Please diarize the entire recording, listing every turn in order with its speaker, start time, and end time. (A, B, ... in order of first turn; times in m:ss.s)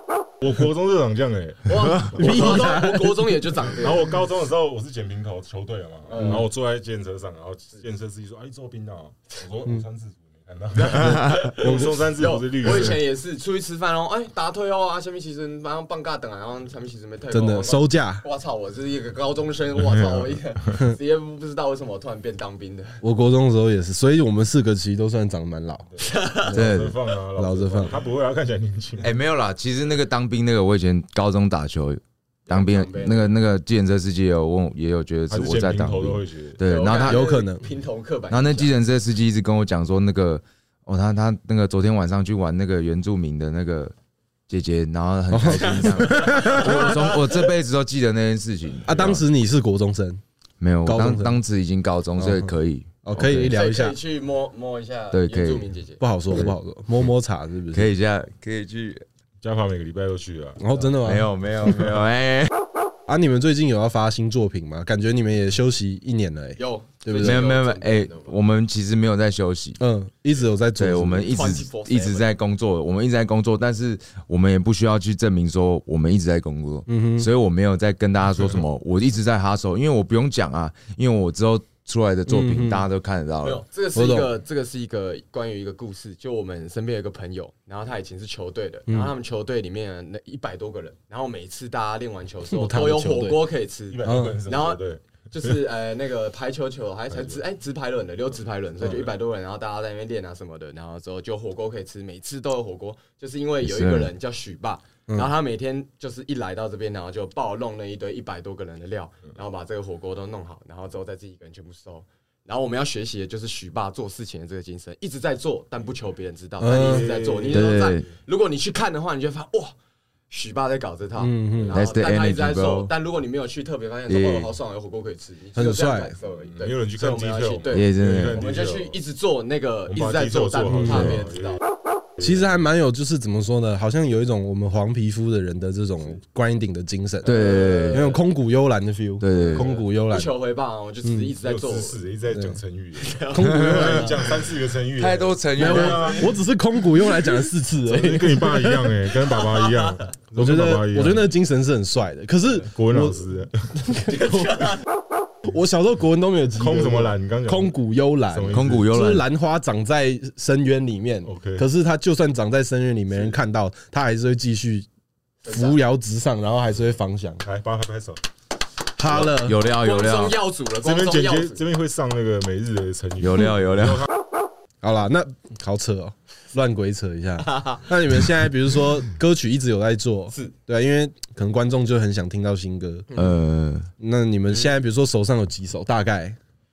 0:00.4-0:02.7 A
0:01.7-0:04.1 B
0:02.2-0:03.2 C
0:03.8-0:13.0 A
0:06.1-0:06.4 B
0:10.8-0:23.0 B
0:11.6-0:12.0 C
0:17.3-0:18.2 C
0:19.8-0:20.4 A
0:23.0-0:25.9 C
0:26.0-0:26.5 B
0:26.5-0:28.0 C
0:26.5-0:29.1 A
0:26.5-0:27.0 D
0:29.0-0:37.2 D
0:32.5-0:33.4 B
0:35.3-0:36.6 A
0:36.6-0:38.7 B
0:37.0-0:37.6 C
0:38.3-0:43.9 D
0:44.5-0:49.0 D
0:45.3-0:47.0 C
0:46.2-0:47.0 B
0:48.8-0:50.2 C
0:50.6-0:53.5 D
0:50.8-0:51.4 C
0:52.2-0:52.5 C
0:53.0-0:54.0 C
0:53.5-0:56.0 B
0:55.1-0:55.7 D
0:56.0-0:57.9 C
0:57.7-0:59.0 D
0:59.4-1:00.9 A
1:00.6-1:01.9 C
1:01.0-1:02.5 D
1:03.1-1:07.4 C
1:06.6-1:08.3 B
1:07.2-1:09.8 D
1:09.8-1:11.5 C
1:10.8-1:23.6 D
1:11.3-1:12.3 B
1:16.9-1:17.3 C
1:22.3-1:22.9 C
1:23.4-1:59.7 B
1:24.0-1:24.3 C
1:32.5-1:33.4 C
1:33.9-1:35.0 A
1:34.0-1:34.4 C
1:43.6-1:44.1 D
1:56.6-1:57.2 C
1:56.7-1:57.8 A
1:57.5-1:58.0 D
2:00.3-2:11.6 B
2:01.2-2:01.8 C
2:01.7-2:02.9 D
2:04.1-2:04.5 D
2:05.5-2:06.2 C
2:06.5-2:08.9 A
2:07.7-2:08.4 D
2:09.9-2:11.6 A
2:10.8-2:11.2 C
2:12.2-2:17.4 C
2:17.2-2:18.2 B
2:17.2-2:18.1 D
2:17.9-2:20.3 C
2:19.2-2:19.7 D
2:19.3-2:22.0 B
2:21.0-2:21.3 C
2:21.4-2:26.3 A
2:22.3-2:22.6 C
2:23.0-2:24.1 B
2:23.3-2:24.2 C
2:23.5-2:24.0 D
2:25.0-2:26.2 D
2:25.6-2:29.0 C
2:27.9-2:31.3 A
2:29.3-2:30.1 B
2:30.4-2:33.2 C
2:32.7-2:33.5 A
2:33.8-2:34.5 C
2:34.1-2:34.7 B
2:35.4-2:44.9 C
2:36.6-2:37.8 A
2:38.3-2:38.9 A
2:38.5-2:39.2 D
2:41.2-2:41.6 A
2:45.4-2:45.8 B
2:45.5-2:47.4 C
2:47.4-2:48.2 A
2:49.0-2:49.6 C
2:49.1-2:50.4 D
2:49.1-2:51.6 B
2:50.8-2:54.1 A
2:53.2-2:54.0 D
2:54.8-3:03.1 C
2:57.4-2:57.8 B
3:03.2-3:03.9 D
3:04.0-3:06.4 C